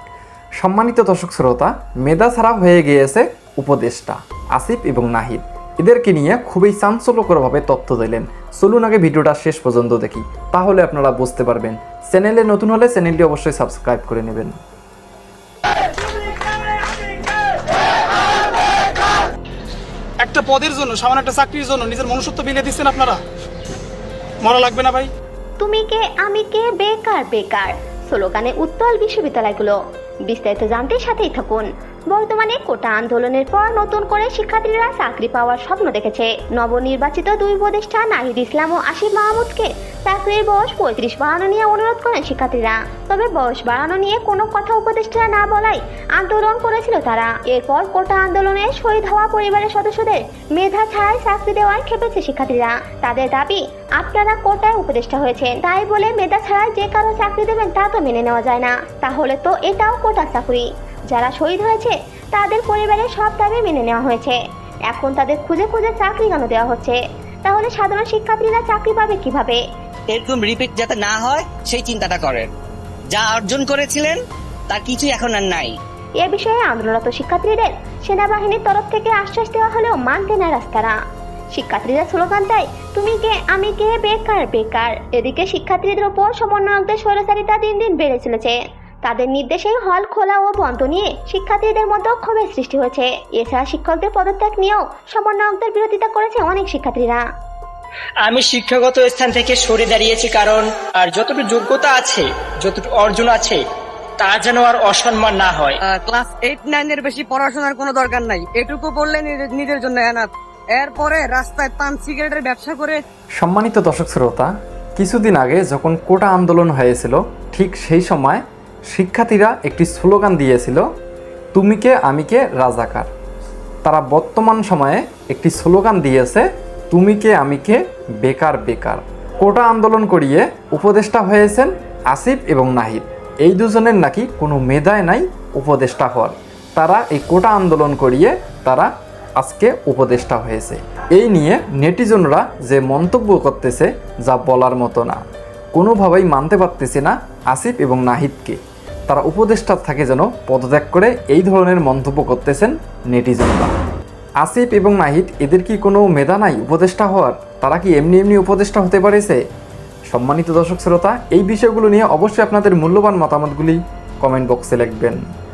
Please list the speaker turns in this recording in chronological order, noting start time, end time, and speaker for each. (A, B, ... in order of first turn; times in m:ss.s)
0:00.6-0:14.6 A
0:20.2-0:23.2 B
0:24.4-0:25.1 B
0:25.6-1:04.4 C
1:04.9-1:09.6 C
1:10.1-1:12.5 D
1:13.1-1:15.8 D
1:16.2-1:21.0 C
1:21.5-1:37.2 C
1:38.2-1:43.6 E
1:44.2-1:45.8 E
1:45.9-1:53.0 F
1:53.4-2:00.8 A
2:01.5-2:03.1 A
2:03.8-2:25.2 A
2:25.8-2:33.8 A
2:34.4-2:39.4 A
2:40.1-2:45.2 A